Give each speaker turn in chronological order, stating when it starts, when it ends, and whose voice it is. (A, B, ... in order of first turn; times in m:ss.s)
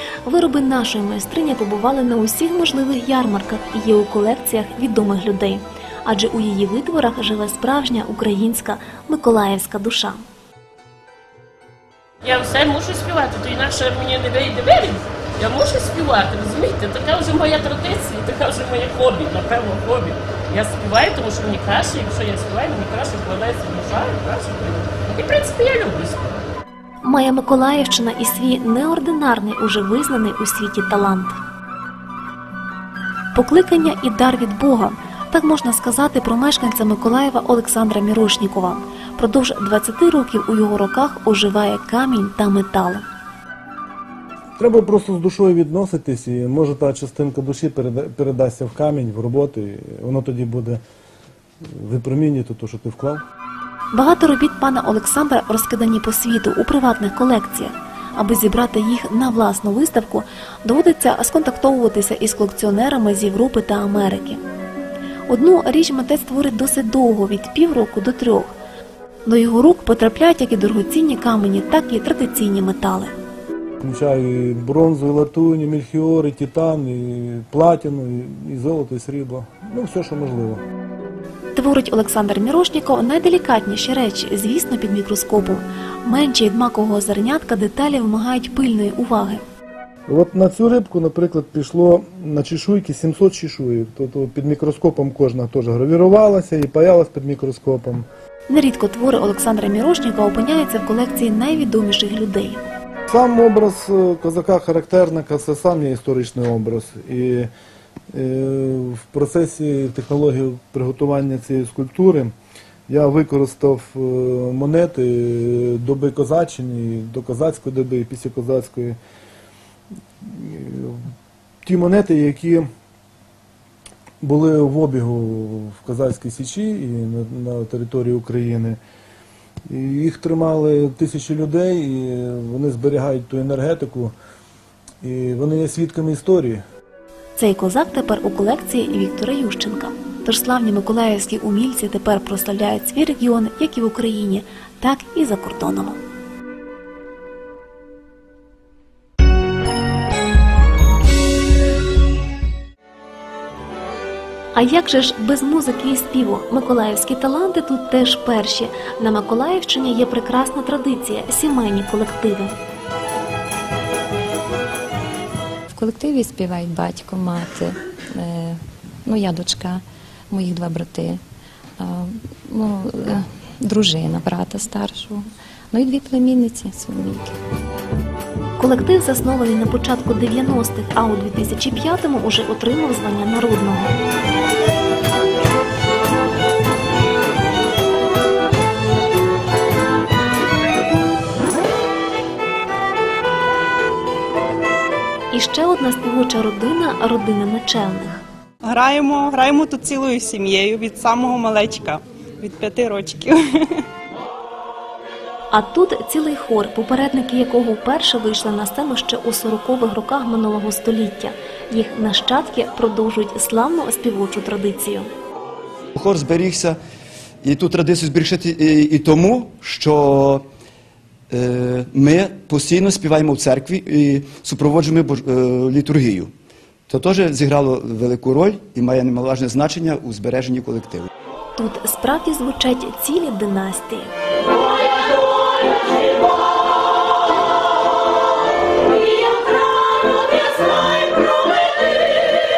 0:00.2-0:10.2 A
0:12.2-0:26.4 B
0:27.0-0:31.4 A
0:33.3-0:43.0 A
0:44.6-0:50.8 C
0:51.6-0:53.2 C
0:53.9-1:04.4 A
1:05.3-1:08.5 A
1:09.3-1:13.1 A
1:13.8-1:20.6 C
1:21.6-1:29.4 A
1:30.1-1:38.1 C
1:38.5-1:42.6 A
1:43.1-1:47.5 C
1:48.1-1:52.3 C
1:52.9-1:59.0 C
2:00.2-2:01.0 C
2:01.6-2:02.7 C
2:04.2-2:08.8 C
2:09.7-2:14.1 C
2:15.0-2:16.6 C
2:17.4-2:26.0 A
2:34.5-2:42.5 A
2:45.7-2:51.2 D
2:51.8-2:57.3 D
2:58.6-3:03.9 A
3:15.3-3:18.2 A
3:18.6-3:23.6 E
3:25.5-3:35.1 A
3:35.9-3:36.8 F
3:37.4-3:40.4 F
3:41.3-3:46.3 F
3:46.9-3:51.1 F
3:51.6-3:54.1 A